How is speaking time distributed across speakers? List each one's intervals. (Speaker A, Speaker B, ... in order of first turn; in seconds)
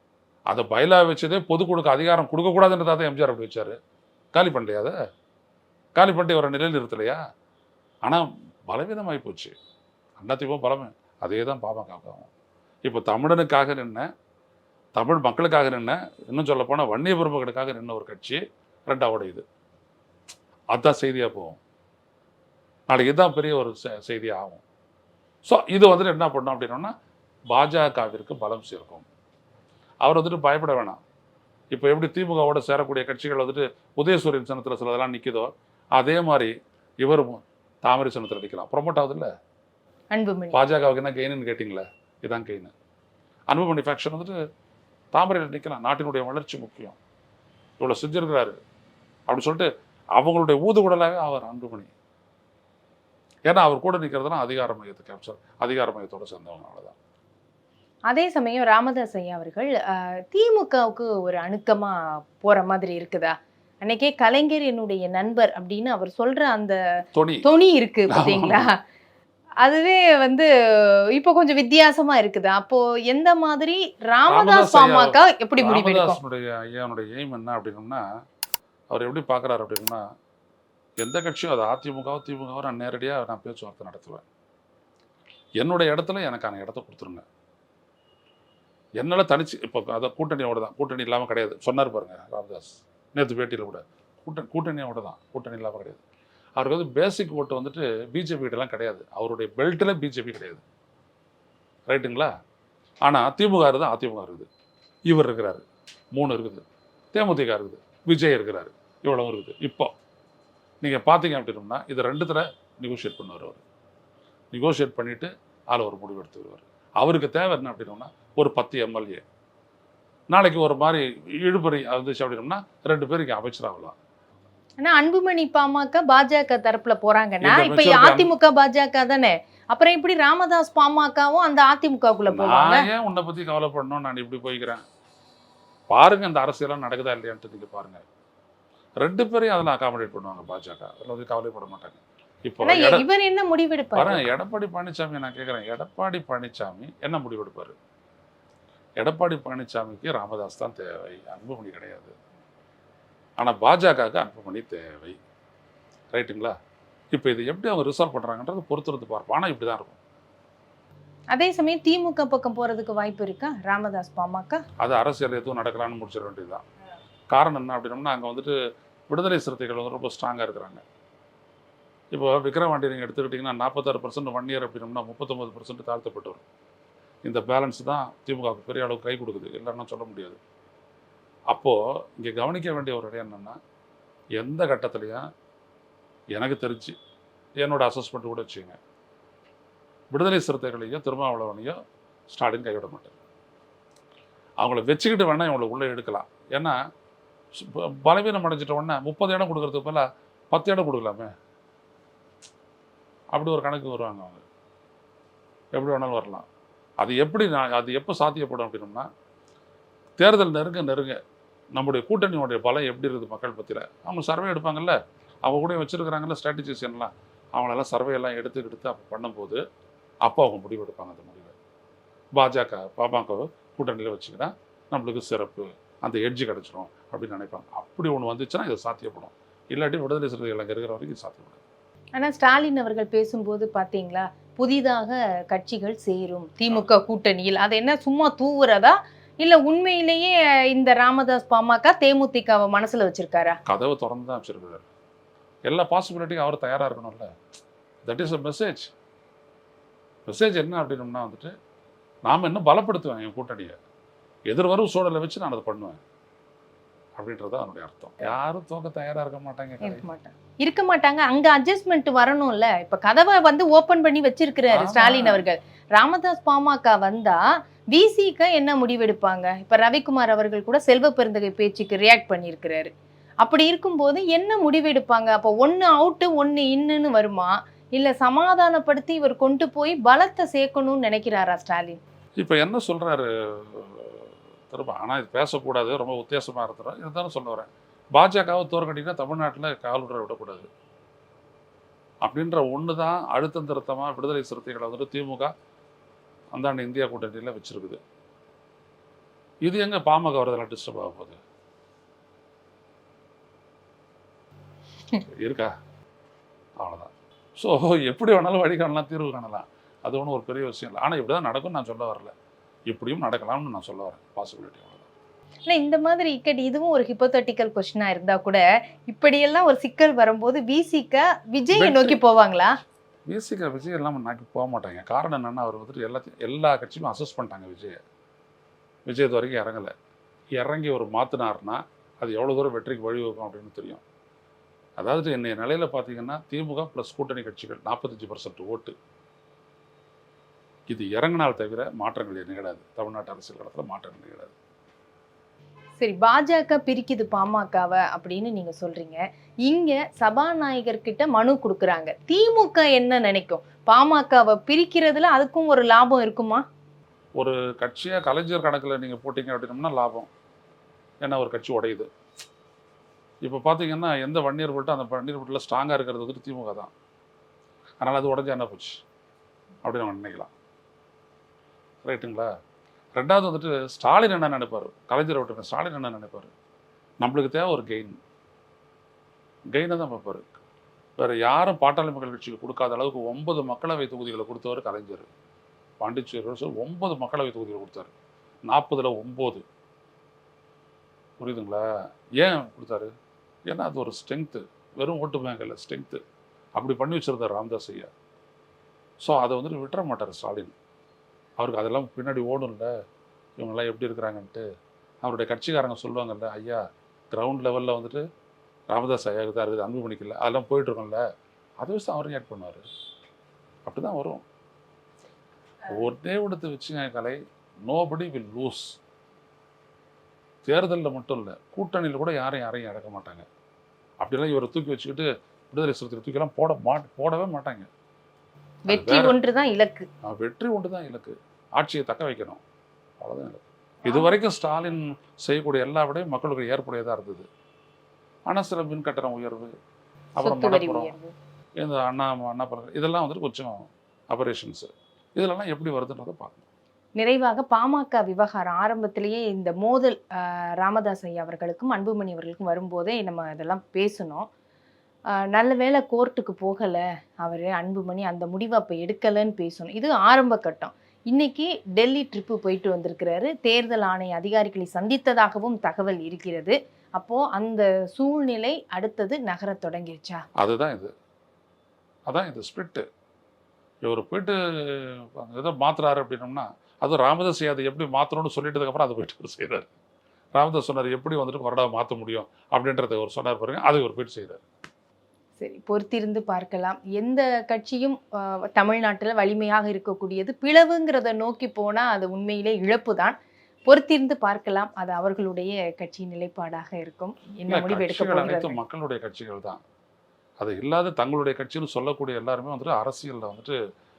Speaker A: 0.5-3.8, 4.3-5.0, 6.0-7.2, 8.0-9.5, 10.2-12.3, 12.8-14.1, 14.9-19.4, 20.7-21.6, 22.9-24.6, 25.4-26.9, 27.5-29.0, 30.0-31.0, 31.7-39.3, 40.5-42.7, 43.5-44.3, 45.1-47.0, 47.8-48.6, 49.3-51.9, 53.5-57.0, 67.1-67.5, 68.1-68.7, 74.3-78.0, 78.9-80.0, 81.0-84.2, 85.6-87.2, 89.0-96.0, 96.6-100.6, 101.9-102.3, 103.0-104.5, 105.1-105.6, 106.1-109.9, 110.8-113.6, 114.5-119.2, 120.3-123.9, 127.4-128.3, 132.3-134.8, 135.9-138.0, 139.0-143.0, 143.9-147.8, 149.0-152.1, 153.4-155.2, 156.1-156.5, 157.1-160.0, 164.8-166.6, 167.3-168.5, 169.1-170.8, 172.1-176.4, 177.2-180.4, 181.5-183.6, 184.4-185.2, 186.3-187.0, 187.6-188.8, 190.1-191.8, 192.3-193.2, 194.6-196.8, 197.6-201.3, 203.3-204.4, 205.7-206.4, 207.0-209.1, 210.2-211.2, 211.8-219.6, 220.2-221.5, 222.3-231.6, 243.7-244.8, 245.7-247.3, 248.0-248.9, 250.2-251.5, 252.2-253.8, 254.5-256.0, 257.2-260.0, 264.7-265.4, 282.4-290.7, 292.2-295.5, 296.5-298.0, 299.6-301.4, 305.3-305.7, 306.8-312.3, 312.9-315.1, 321.7-322.2, 323.3-328.0, 329.1-329.9, 330.6-334.0, 335.0-338.9, 340.9-344.5, 357.4-360.3, 361.2-362.1, 363.4-366.9, 368.0-369.0, 369.8-370.5, 372.0-372.5, 373.1-376.5, 377.2-378.2, 379.7-380.5, 381.2-385.3, 386.0-388.1, 388.6-389.6, 391.4-391.8, 392.4-393.1, 393.7-396.2, 396.8-398.1, 399.2-400.7, 401.6-402.9, 403.6-404.6, 405.2-408.2, 408.9-411.2, 411.8-412.9, 413.9-414.4, 415.9-418.9, 420.6-423.4, 424.2-427.9, 428.9-429.4, 430.2-432.6, 433.2-437.5, 438.5-439.7, 440.4-441.1, 441.8-446.6, 470.6-471.1, 472.3-473.1, 474.0-479.9, 480.5-484.6, 497.7-499.8, 500.6-503.8
Speaker B: 40.1-40.6, 58.1-59.8, 60.3-66.8, 67.4-68.8, 69.6-70.5, 71.1-76.2, 124.8-132.9, 142.6-144.3, 161.3-164.6, 232.2-243.6, 259.8-267.4, 267.9-272.9, 273.4-282.0, 315.6-322.8, 346.0-356.6, 428.9-430.1, 440.4-441.3, 447.2-454.5, 455.5-470.4, 485.6-493.4, 493.9-498.8